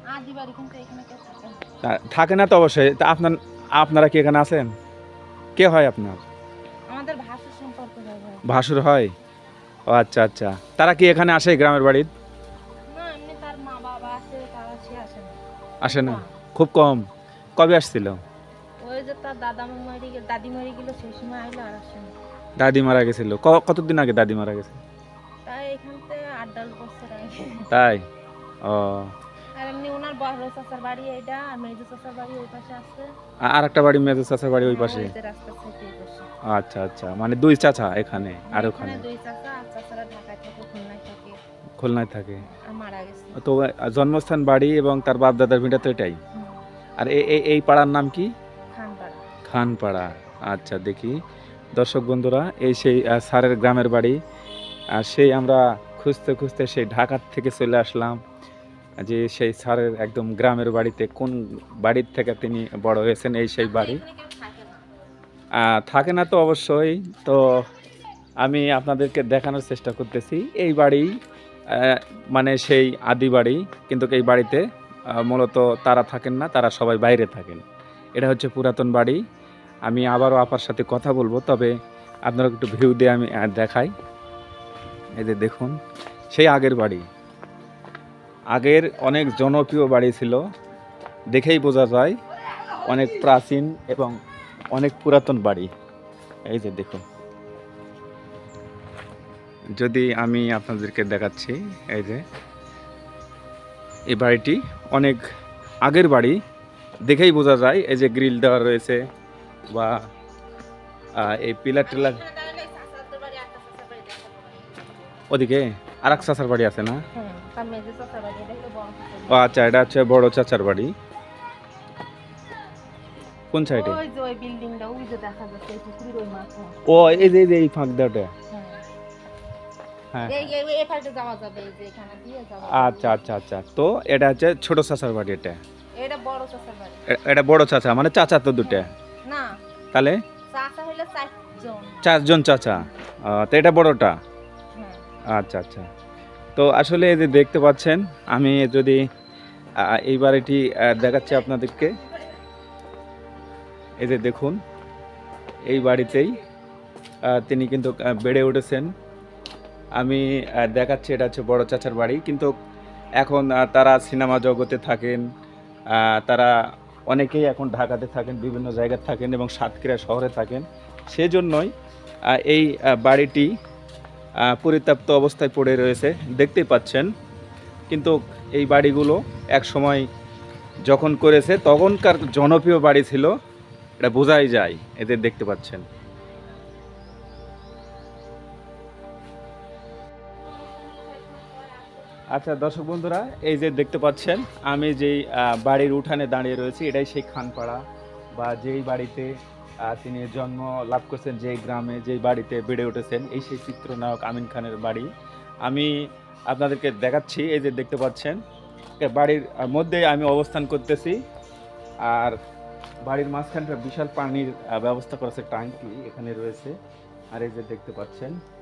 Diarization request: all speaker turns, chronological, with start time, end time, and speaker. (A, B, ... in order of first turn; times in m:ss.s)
0:00.1-0:01.7 A
0:01.8-0:04.7 B
0:05.6-0:06.2 B
0:06.9-0:08.4 A
0:08.5-0:09.1 B
0:09.9-0:12.1 B
0:12.9-0:16.4 A
0:15.8-0:17.1 B
0:17.6-0:18.2 B
0:18.8-0:22.1 A
0:22.6-0:24.8 B
0:25.4-0:27.7 A
0:27.7-0:28.1 B
0:28.6-0:29.1 B
0:29.6-0:33.1 A
0:33.4-0:35.1 B
0:34.6-0:36.3 A
0:36.4-0:39.0 B
0:38.5-0:41.4 A
0:41.8-0:42.4 B
0:42.4-0:43.4 A
0:43.4-0:46.2 B
0:46.3-0:46.6 A
0:47.0-0:48.3 B
0:48.7-0:49.2 A
0:49.5-0:51.2 B
0:51.8-0:54.2 B
0:55.0-0:58.2 B
0:59.0-1:04.0 B
1:03.6-1:04.9 A
1:05.6-1:07.6 B
1:08.4-1:11.1 B
1:11.7-1:17.6 B
1:18.2-1:19.2 B
1:19.9-1:21.7 B
1:22.3-1:23.9 B
1:25.2-1:25.8 B
1:26.3-1:27.0 B
1:28.5-1:30.4 B
1:31.3-1:32.2 B
1:32.9-1:34.2 B
1:34.7-1:35.7 B
1:36.5-1:37.0 B
1:39.7-1:42.2 B
1:44.1-1:45.2 B
1:45.8-1:46.4 B
1:47.0-1:49.1 B
1:49.7-1:50.1 B
1:51.2-1:52.2 B
1:51.8-1:55.2 A
1:55.3-1:57.0 B
1:57.1-1:59.8 A
1:59.3-2:00.9 B
2:03.5-2:04.0 B
2:03.7-2:07.3 A
2:06.9-2:08.3 B
2:08.5-2:08.8 A
2:10.1-2:10.5 B
2:10.3-2:13.2 A
2:12.7-2:15.6 B
2:16.0-2:17.0 A
2:17.1-2:18.9 B
2:18.6-2:19.6 A
2:19.9-2:20.2 B
2:20.5-2:22.0 A
2:22.0-2:24.2 B
2:24.8-2:25.0 A
2:25.3-2:25.9 B
2:26.6-2:29.1 B
2:29.8-2:32.0 B
2:34.0-2:34.6 B
2:35.7-2:36.4 B
2:37.3-2:38.9 B
2:40.0-2:42.5 B
2:43.2-2:45.2 B
2:45.9-2:46.5 B
2:47.1-2:51.7 B
2:52.3-2:53.5 B
2:54.4-2:57.1 B
2:57.9-3:00.1 B
3:00.8-3:03.4 B
3:04.0-3:05.8 B
3:10.4-3:12.2 A
3:12.3-3:17.8 B
3:18.4-3:25.1 B
3:25.6-3:25.9 B
3:26.5-3:28.4 B
3:29.0-3:31.2 B
3:32.0-3:32.4 B
3:33.0-3:36.8 B
3:37.3-3:38.4 B